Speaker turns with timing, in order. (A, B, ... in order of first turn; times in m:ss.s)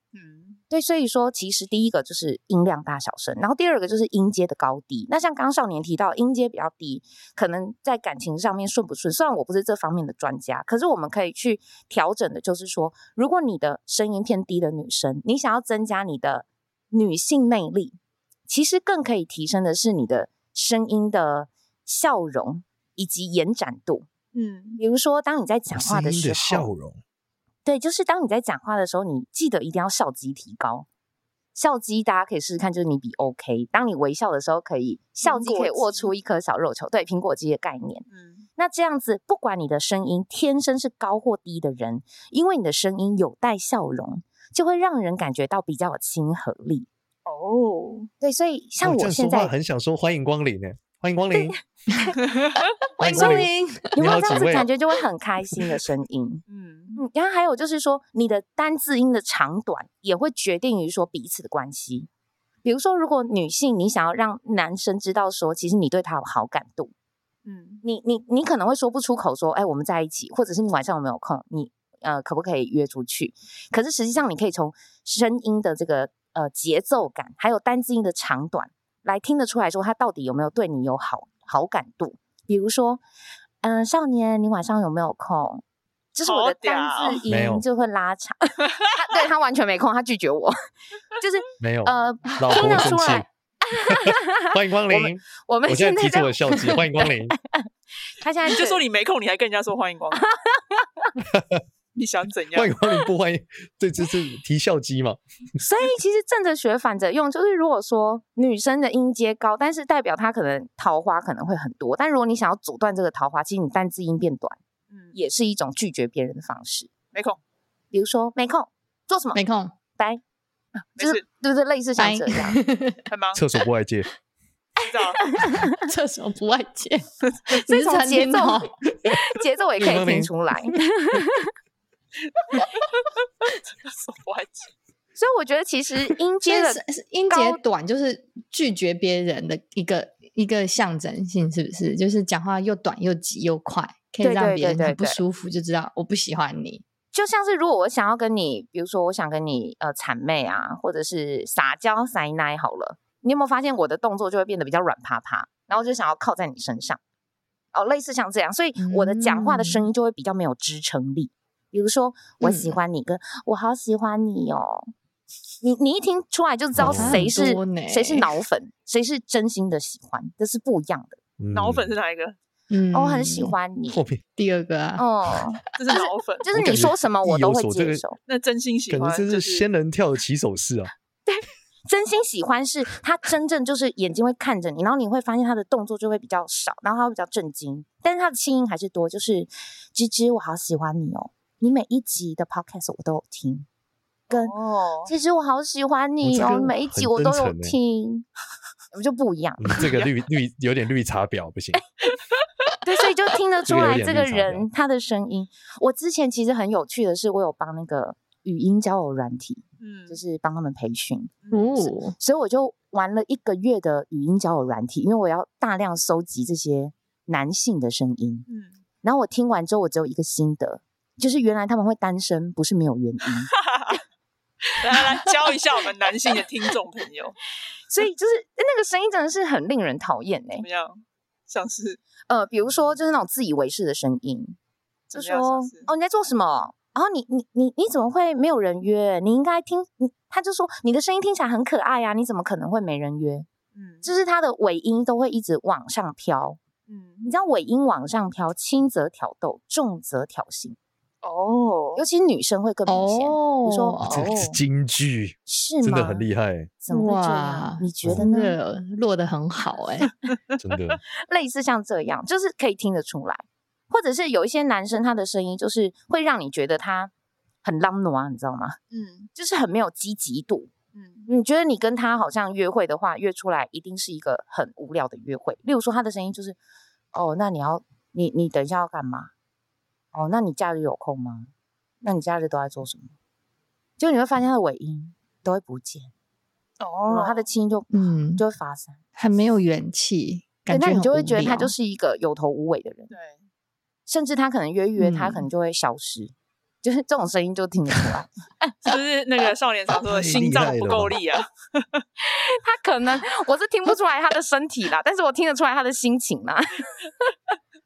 0:00.1-0:00.6 A
0:00.7-0:18.0 B
0:18.5-0:24.1 B
0:24.3-0:24.8 A
0:24.8-0:26.7 B
0:25.7-0:27.0 C
0:27.6-0:30.9 B
0:31.5-0:46.9 B
0:35.2-0:36.1 A
0:38.1-0:38.4 A
0:47.2-0:48.1 A
0:48.2-0:49.5 B
0:48.8-0:51.6 C
0:52.2-0:52.6 A
0:53.0-0:54.7 C
0:53.0-0:54.0 D
0:53.0-0:56.4 B
0:56.5-0:57.0 A
0:57.0-1:02.1 B
1:02.6-1:06.9 B
1:07.4-1:07.8 A
1:07.8-1:23.0 B
1:23.6-1:25.6 B
1:26.1-1:30.6 B
1:26.2-1:27.2 A
1:27.3-1:27.6 C
1:31.2-1:37.7 B
1:31.6-1:33.3 C
1:33.8-1:37.3 C
1:38.2-1:38.8 B
1:38.4-1:40.3 A
1:40.1-1:41.1 B
1:41.2-1:41.6 C
1:41.9-1:42.8 A
1:42.5-1:45.2 C
1:45.6-1:54.6 B
1:54.9-1:55.2 A
1:55.1-1:56.9 B
1:57.1-1:57.4 A
1:57.9-1:59.4 B
1:59.3-1:59.7 D
2:00.0-2:00.2 B
2:01.0-2:01.2 A
2:01.0-2:02.6 B
2:02.0-2:03.0 D
2:03.1-2:03.4 A
2:03.3-2:04.1 C
2:04.8-2:05.3 A
2:05.3-2:05.8 B
2:05.8-2:08.7 D
2:07.5-2:11.5 B
2:09.8-2:10.3 C
2:12.3-2:14.7 A
2:15.2-2:17.6 B
2:16.4-2:26.8 D
2:24.2-2:25.2 B
2:27.1-2:37.0 B
2:37.7-2:44.9 B
2:38.8-2:39.9 D
2:42.4-2:42.8 D
2:45.6-2:51.2 B
2:46.8-2:47.3 C
2:46.8-2:48.3 D
2:51.4-2:51.9 C
2:51.5-2:52.4 A
2:52.7-2:53.5 D
2:52.9-2:54.0 B
2:53.9-2:54.2 C
2:54.4-2:55.5 D
2:55.0-2:58.2 B
2:55.7-2:56.5 A
2:56.5-2:58.0 C
2:58.2-2:59.7 A
2:58.9-3:00.9 C
3:01.2-3:13.7 B
3:14.3-3:15.1 A
3:14.3-3:18.2 B
3:16.2-3:17.8 C
3:18.9-3:20.0 B
3:19.6-3:21.8 C
3:22.8-3:38.4 B
3:23.6-3:24.6 C
3:29.8-3:30.2 A
3:31.4-3:31.7 A
3:31.5-3:32.1 D
3:39.0-3:43.5 B
3:43.6-3:44.0 A
3:44.7-3:47.4 A
3:47.9-3:50.6 B
3:50.6-3:52.0 A
3:52.3-3:54.6 B
3:55.1-4:03.5 B
3:55.1-3:55.9 A
4:03.7-4:04.1 A
4:04.0-4:06.6 B
4:06.9-4:07.3 A
4:07.2-4:10.8 B
4:11.2-4:12.0 A
4:12.0-4:14.6 B
4:12.9-4:14.3 D
4:14.0-4:16.7 C
4:15.5-4:16.3 B
4:16.8-4:18.6 B
4:16.9-4:20.1 D
4:20.3-4:20.9 A
4:20.6-4:21.0 C
4:21.2-4:27.1 B
4:27.6-4:28.8 B
4:28.9-4:29.3 A
4:29.3-4:30.7 B
4:30.9-4:31.3 A
4:31.3-4:36.6 B
4:37.1-4:39.3 B
4:40.1-4:41.5 B
4:42.0-4:43.1 B
4:44.0-4:46.1 B
4:46.8-4:47.4 A
4:47.1-4:49.0 B
4:47.9-4:48.4 D
4:49.2-4:51.7 D
4:50.7-4:53.1 B
4:53.1-4:53.4 A
4:54.1-4:58.7 B
4:55.0-4:55.5 D
4:58.8-5:02.0 A
5:00.1-5:01.2 C
5:02.2-5:07.0 B